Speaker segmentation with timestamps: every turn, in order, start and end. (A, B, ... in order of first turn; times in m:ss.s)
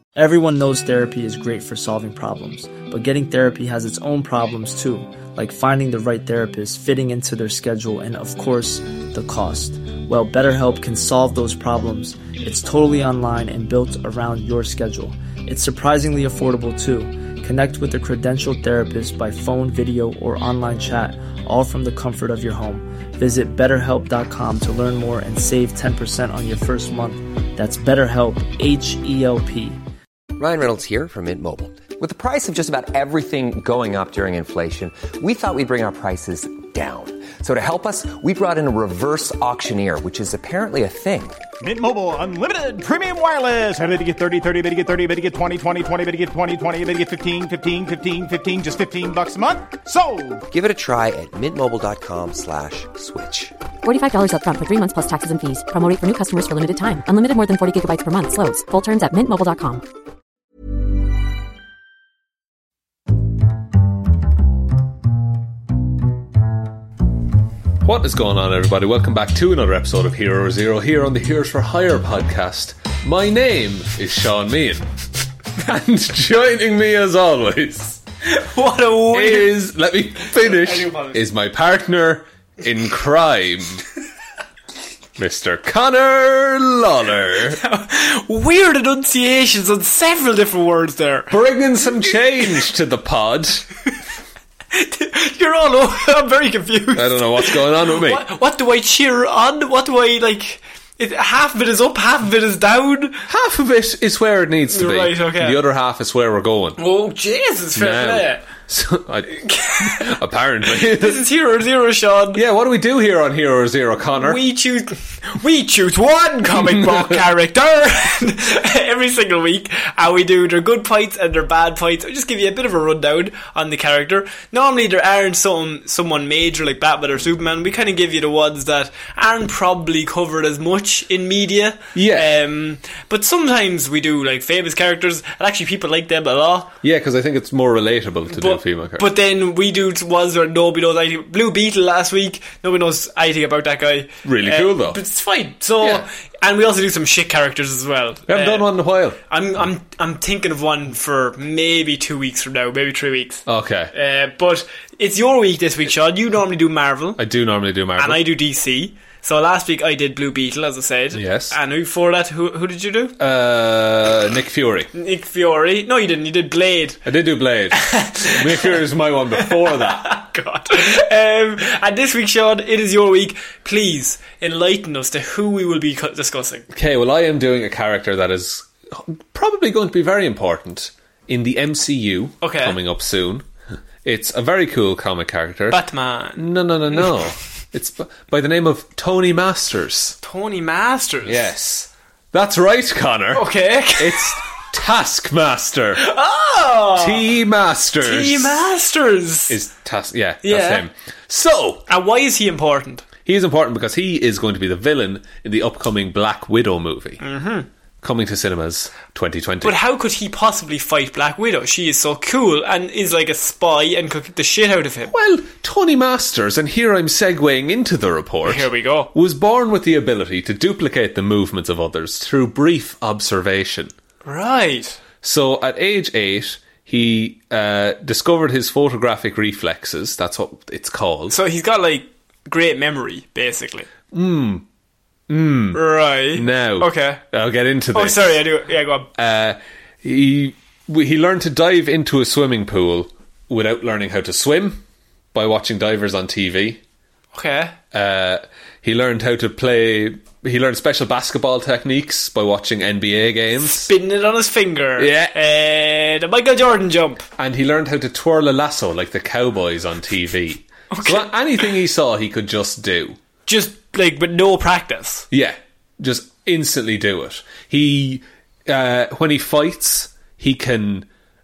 0:00.2-0:29.8 A
0:30.4-0:41.4 B
0:41.6-0:50.4 C
0:50.5-0:53.6 B
0:53.8-0:59.8 D
1:07.8-1:14.9 E
1:15.6-1:18.0 E
1:18.3-1:19.5 F
1:19.1-1:23.8 E
1:20.2-1:21.2 F
1:25.2-1:27.6 E
1:27.6-1:31.3 F
1:31.3-1:33.7 E
1:34.7-1:43.2 F
1:36.9-1:38.2 E
1:43.3-1:46.8 E
1:44.7-1:45.6 F
1:46.8-1:48.5 F
1:47.8-1:51.3 E
1:49.4-1:50.2 F
1:50.7-1:52.4 F
1:52.3-1:54.4 E
1:54.1-2:16.7 F
1:56.6-1:57.1 E
2:12.0-2:12.3 E
2:16.8-2:19.1 E
2:18.3-2:28.7 F
2:24.2-2:25.0 E
2:25.8-2:26.1 E
2:28.3-2:29.2 E
2:29.3-2:37.2 F
2:33.5-2:33.9 E
2:37.2-2:38.2 E
2:38.0-2:43.2 F
2:41.1-2:41.6 E
2:43.2-2:44.9 E
2:44.9-2:47.0 F
2:47.0-2:50.1 E
2:47.7-2:48.9 F
2:49.4-2:56.7 F
2:56.7-3:03.5 E
3:02.4-3:02.8 F
3:04.0-3:05.8 E
3:05.7-3:06.4 F
3:06.4-3:10.2 E
3:10.2-3:11.5 F
3:11.2-3:16.1 E
3:13.3-3:14.4 F
3:16.0-3:17.2 F
3:17.0-3:18.6 E
3:18.0-3:19.6 F
3:19.5-3:21.9 E
3:20.4-3:20.9 F
3:21.9-3:23.1 F
3:23.2-3:27.2 E
3:27.2-3:27.7 F
3:28.0-3:29.8 E
3:29.6-3:35.1 F
3:35.1-3:43.9 E
3:38.4-3:39.1 F
3:44.2-3:45.0 F
3:45.2-3:51.4 E
3:51.3-3:53.9 F
3:54.1-3:54.6 E
3:55.3-3:58.4 E
3:55.7-3:57.2 F
3:57.9-3:59.1 F
3:59.2-4:06.8 E
4:07.3-4:07.8 F
4:07.9-4:13.9 E
4:13.6-4:17.3 F
4:15.0-4:15.4 E
4:17.4-4:23.2 E
4:20.9-4:21.3 F
4:23.5-4:25.3 F
4:25.3-4:31.1 E